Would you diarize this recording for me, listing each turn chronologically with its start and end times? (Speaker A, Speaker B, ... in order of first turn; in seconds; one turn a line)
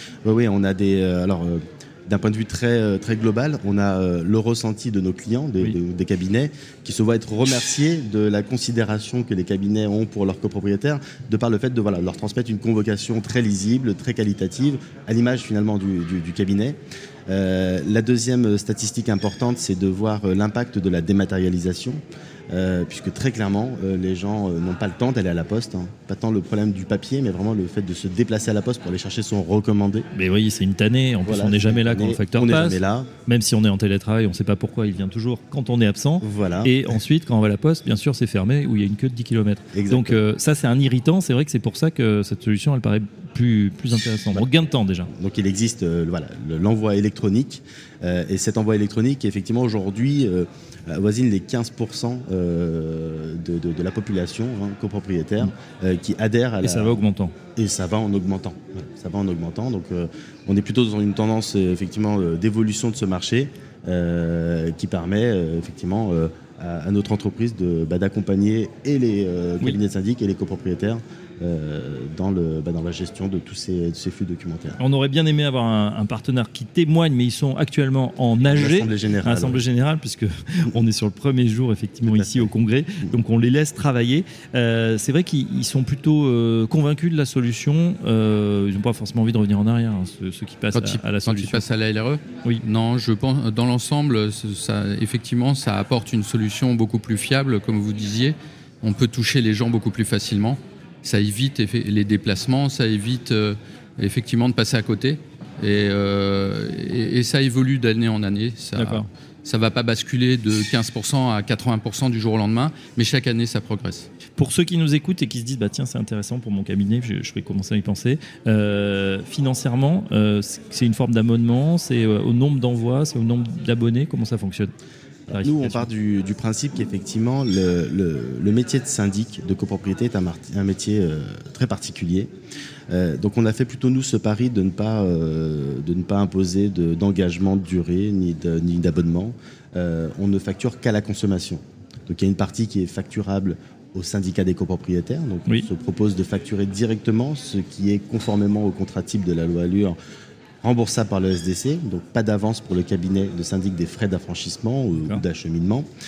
Speaker A: 0.2-30.1
Speaker B: 30.1-45.1
Speaker A: 31.2-33.1
Speaker A: 36.2-36.8
Speaker A: 39.7-40.2
Speaker A: 45.1-57.0
Speaker B: 56.6-57.3
Speaker A: 57.5-74.8
Speaker B: 74.8-91.6
Speaker A: 78.4-79.7
Speaker A: 82.1-83.2
Speaker C: 90.7-114.1
Speaker B: 108.8-109.1
Speaker B: 114.4-124.7
Speaker A: 125.3-132.3
Speaker B: 125.3-125.9
Speaker A: 132.9-149.9
Speaker A: 150.6-155.9
Speaker B: 154.9-155.2